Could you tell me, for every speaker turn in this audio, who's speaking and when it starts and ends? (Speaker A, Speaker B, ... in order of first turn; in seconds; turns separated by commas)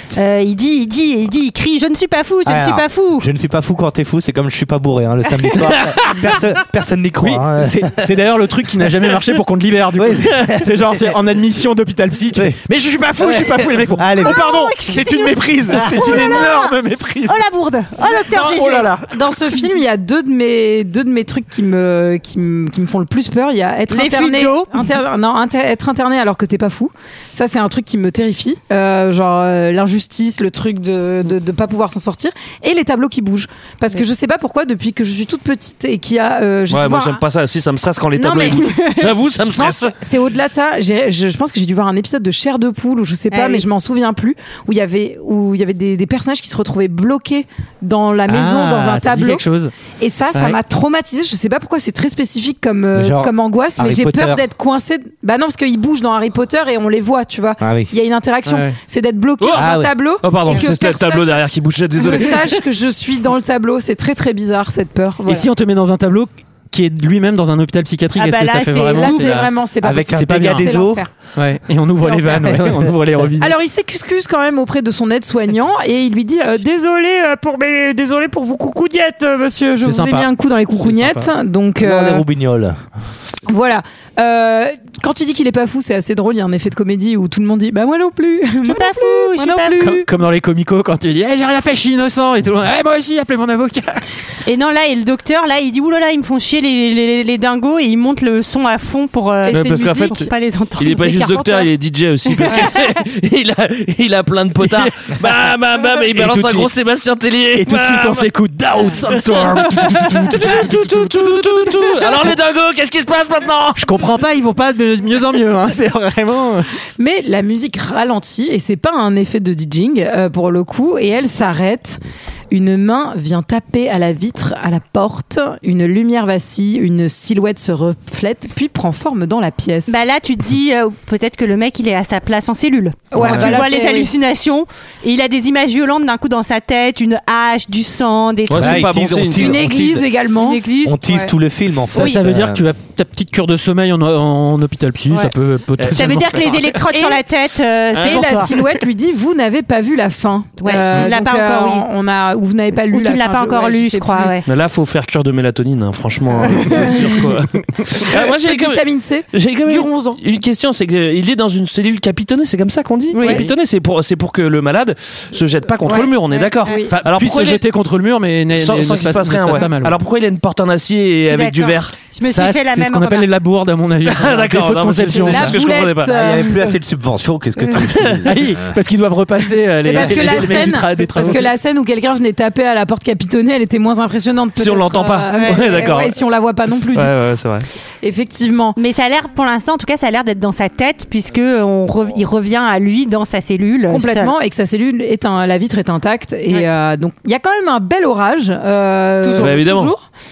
Speaker A: 0.1-3.3, Speaker B: 2.4-8.1, Speaker C: 5.7-6.3, Speaker D: 7.2-17.4, Speaker B: 9.9-11.2, Speaker B: 13.2-14.6, Speaker A: 14.2-18.9, Speaker E: 18.3-37.2, Speaker D: 18.4-19.1, Speaker A: 23.9-24.9, Speaker C: 36.7-39.9, Speaker E: 38.1-49.4, Speaker A: 43.3-43.6, Speaker D: 48.3-49.7, Speaker E: 50.0-61.2, Speaker B: 52.9-54.5, Speaker B: 57.6-57.9, Speaker D: 58.5-58.8, Speaker C: 59.4-59.7, Speaker B: 59.5-59.9, Speaker C: 60.2-62.6, Speaker E: 62.0-65.5, Speaker D: 65.2-69.5, Speaker A: 68.1-69.4, Speaker E: 68.9-71.1, Speaker B: 69.8-71.1, Speaker D: 70.1-73.5, Speaker B: 72.1-72.9, Speaker E: 73.4-82.2, Speaker D: 79.8-81.3, Speaker B: 81.8-82.8, Speaker E: 83.5-90.1, Speaker A: 88.6-90.0, Speaker D: 90.0-94.0, Speaker A: 94.4-101.7, Speaker E: 99.4-100.3, Speaker C: 99.5-100.2, Speaker C: 100.8-108.3, Speaker A: 102.4-102.8, Speaker D: 106.1-106.7, Speaker D: 107.6-112.2, Speaker C: 108.9-113.9, Speaker D: 113.8-116.7, Speaker E: 117.0-122.0, Speaker E: 122.5-130.0, Speaker A: 129.9-138.9, Speaker E: 133.1-134.1, Speaker B: 133.2-133.6, Speaker C: 138.5-139.5, Speaker B: 138.5-140.1, Speaker E: 139.3-141.2, Speaker A: 140.4-141.2, Speaker B: 140.8-142.6, Speaker D: 141.9-146.8, Speaker A: 141.9-142.2, Speaker C: 145.8-146.5, Speaker A: 145.9-148.5, Speaker E: 146.9-147.2, Speaker D: 148.0-148.6, Speaker E: 148.0-154.3, Speaker A: 150.6-151.8, Speaker A: 152.9-154.4, Speaker C: 154.4-167.6, Speaker E: 156.6-157.0, Speaker E: 158.0-160.2, Speaker A: 163.1-163.5, Speaker E: 165.8-166.9, Speaker A: 165.9-166.8, Speaker D: 166.9-170.0, Speaker C: 168.5-171.9, Speaker A: 171.2-173.3, Speaker D: 172.2-175.6, Speaker C: 174.0-176.2, Speaker E: 175.2-176.7, Speaker B: 176.0-178.8, Speaker C: 177.9-178.2, Speaker D: 178.2-181.5, Speaker E: 179.8-187.1, Speaker C: 184.6-186.2, Speaker A: 185.3-186.0, Speaker C: 186.9-187.7, Speaker E: 188.0-188.8, Speaker A: 188.8-194.3, Speaker E: 193.9-200.0, Speaker A: 199.2-199.6, Speaker C: 199.4-199.9